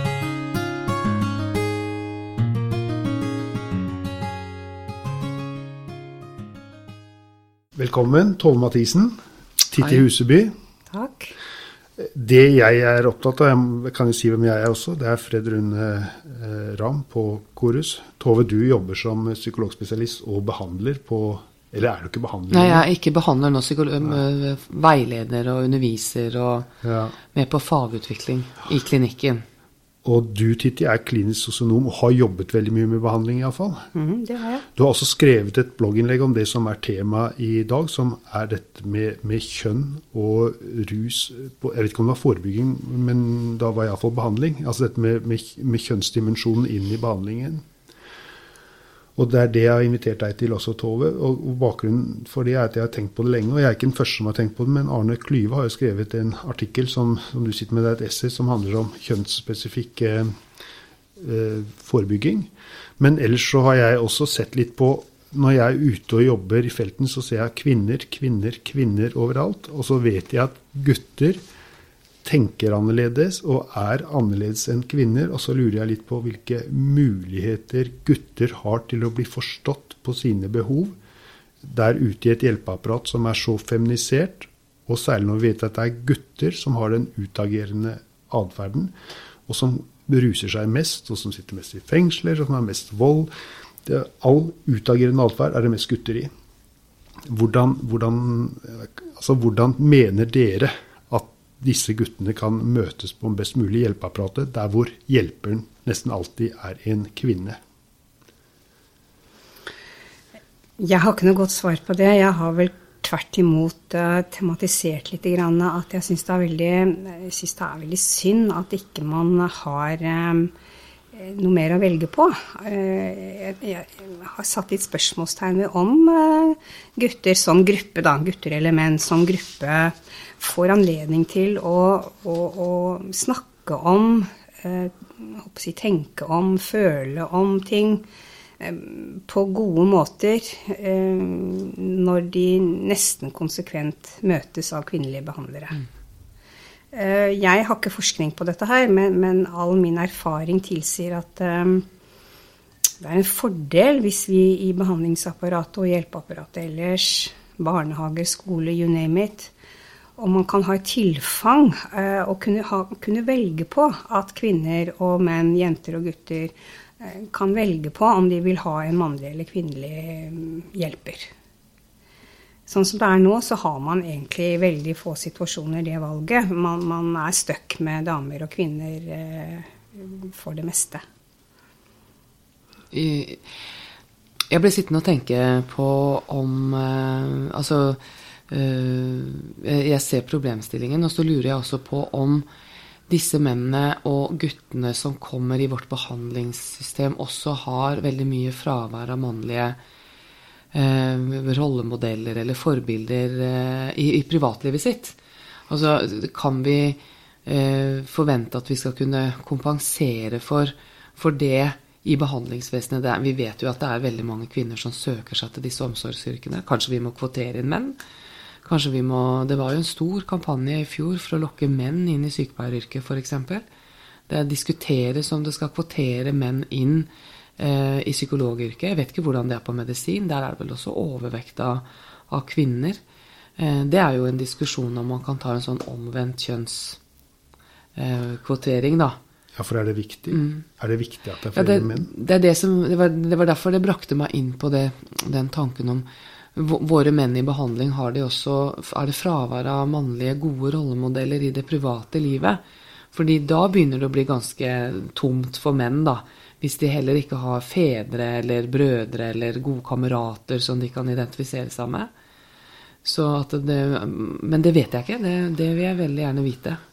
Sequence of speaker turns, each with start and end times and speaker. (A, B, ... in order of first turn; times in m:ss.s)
0:07.8-0:09.2 A
0:09.7-0:10.5 A
0:10.9-0:11.4 B
0:12.0-0:22.8 A
0:22.5-0:26.7 C
0:26.8-0:27.2 A
0:27.3-0:29.4 C
0:30.0-0:33.9 A
0:34.0-0:34.6 B
0:34.8-0:47.6 A
0:49.2-1:00.3 A
1:01.2-1:11.4 A
1:12.2-1:21.0 A
1:21.6-1:28.9 A
1:29.5-1:33.3 A
1:33.9-1:36.3 A
1:37.3-1:47.6 A
1:50.8-2:00.5 B
2:01.1-2:18.0 B
2:18.6-2:25.8 B
2:26.9-2:31.8 B
2:33.0-2:39.5 B
2:40.2-2:51.3 B
2:52.7-3:01.0 B
3:02.9-3:03.4 C
3:04.5-3:12.5 C
3:13.1-3:19.8 C
3:20.7-3:25.2 C
3:25.7-3:38.0 C
3:38.6-3:43.6 C
3:44.3-3:53.0 C
3:53.6-3:57.0 C
3:58.0-3:59.2 C
3:59.6-4:02.1 A
4:00.3-4:00.6 C
4:01.5-4:12.6 C
4:13.1-4:22.1 C
4:23.0-4:26.8 C